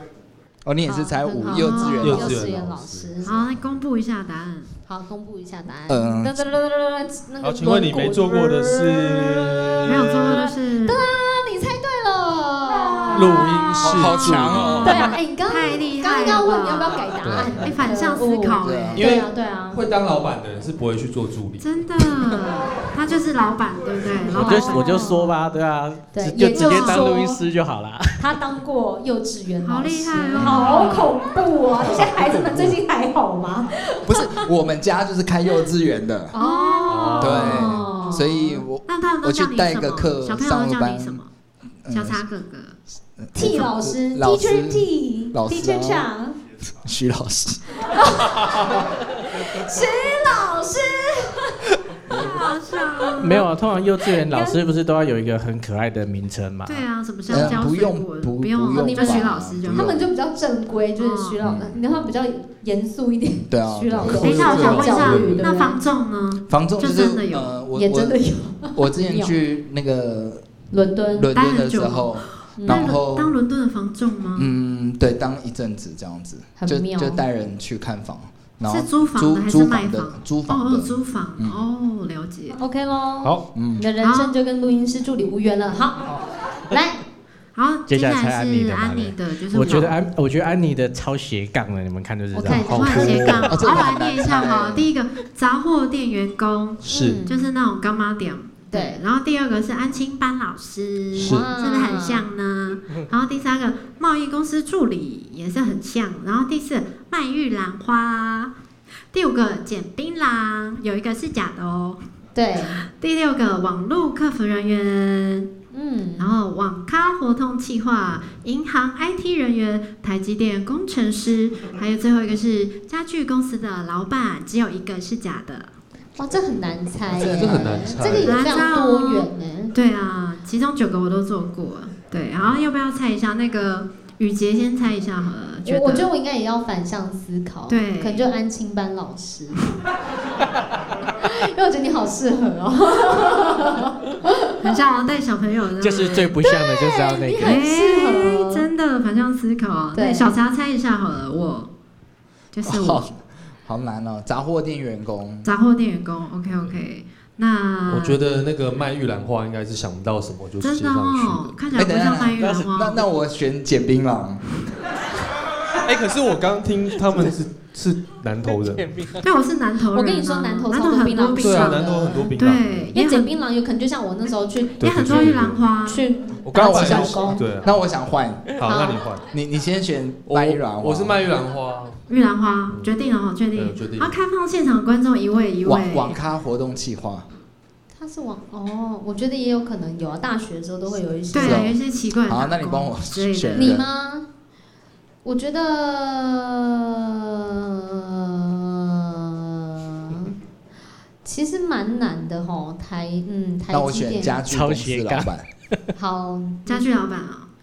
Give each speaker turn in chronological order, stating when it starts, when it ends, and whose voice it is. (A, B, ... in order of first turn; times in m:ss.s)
0:00.6-0:02.4 A
0:00.9-0:03.4 B
0:01.5-0:02.2 C
0:02.0-0:03.4 D
0:03.2-0:04.7 C
0:04.9-0:13.5 B
0:05.9-0:06.4 A
0:07.4-0:10.4 D
0:09.8-0:11.0 C
0:12.8-0:17.0 C
0:13.1-0:15.0 D
0:13.8-0:15.1 A
0:14.8-0:19.8 B
0:17.2-0:17.7 D
0:17.6-0:19.0 C
0:18.6-0:19.2 A
0:19.0-0:22.2 D
0:21.6-0:25.2 C
0:24.3-0:25.3 B
0:24.3-0:28.4 E
0:26.1-0:27.4 B
0:26.5-0:27.1 C
0:28.2-0:34.5 B
0:29.6-0:31.1 C
0:30.4-0:30.8 D
0:34.0-0:36.3 A
0:36.3-0:38.6 B
0:36.4-0:38.2 C
0:36.9-0:37.8 D
0:37.2-0:41.2 A
0:38.8-0:41.3 C
0:41.8-0:42.2 A
0:41.9-0:42.8 C
0:43.2-0:46.1 A
0:43.3-0:46.4 B
0:46.8-0:47.8 A
0:47.8-0:51.6 B
0:52.1-0:52.4 A
0:52.1-0:53.5 C
0:52.1-0:52.4 B
0:53.2-0:56.8 E
0:54.3-0:54.5 B
0:56.6-0:59.9 C
0:57.3-1:00.1 A
0:58.8-1:05.8 B
1:01.0-1:01.4 C
1:01.4-1:01.7 A
1:03.5-1:04.6 A
1:04.0-1:05.4 D
1:04.2-1:07.5 C
1:06.5-1:08.2 A
1:07.7-1:09.3 B
1:08.7-1:10.5 A
1:10.7-1:11.3 B
1:11.1-1:13.4 A
1:11.3-1:14.5 C
1:12.6-1:12.9 B
1:14.3-1:21.6 A
1:16.6-1:17.2 B
1:18.6-1:22.6 C
1:22.5-1:27.0 B
1:23.5-1:23.8 A
1:24.0-1:24.3 C
1:27.5-1:30.0 C
1:27.9-1:33.1 E
1:32.3-1:33.5 B
1:32.5-1:33.5 D
1:32.7-1:48.5 C
1:33.5-1:34.9 A
1:36.8-1:37.2 D
1:36.9-1:37.5 B
1:38.7-1:39.0 B
1:41.1-1:41.5 D
1:41.3-1:42.2 B
1:49.1-1:52.0 C
1:52.3-1:52.8 B
1:52.8-1:55.5 C
1:55.7-1:56.3 B
1:56.2-2:05.7 C
2:06.2-2:09.7 B
2:07.1-2:08.4 D
2:07.3-2:07.8 A
2:08.2-2:16.1 C
2:15.6-2:19.7 B
2:17.7-2:18.3 C
2:21.2-2:24.6 B
2:24.6-2:26.4 C
2:25.8-2:27.6 E
2:26.4-2:28.7 B
2:27.4-2:31.7 C
2:29.9-2:30.3 B
2:32.5-2:33.1 C
2:32.6-2:35.5 A
2:35.4-2:38.2 C
2:37.9-2:41.6 D
2:40.6-2:43.0 C
2:41.7-2:44.6 A
2:42.4-2:42.7 E
2:45.8-2:49.0 D
2:48.8-2:49.2 E
2:49.2-2:53.3 C
2:49.9-2:52.3 B
2:51.4-2:52.9 D
2:52.9-2:57.4 B
2:54.8-2:55.7 D
2:54.8-2:56.0 C
2:56.4-2:57.8 D
2:56.6-2:58.6 A
2:58.6-2:59.3 D
2:58.7-2:59.0 B
2:59.2-3:01.2 A
3:00.2-3:02.0 D
3:02.1-3:06.2 C
3:03.6-3:04.1 D
3:05.6-3:07.2 A
3:07.9-3:11.7 B
3:11.3-3:13.8 C
3:11.4-3:13.9 A
3:13.5-3:14.3 B
3:15.2-3:16.9 B
3:18.2-3:20.4 B
3:21.2-3:24.4 B
3:23.7-3:25.4 A
3:24.5-3:25.3 E
3:26.0-3:26.9 B
3:26.6-3:27.5 C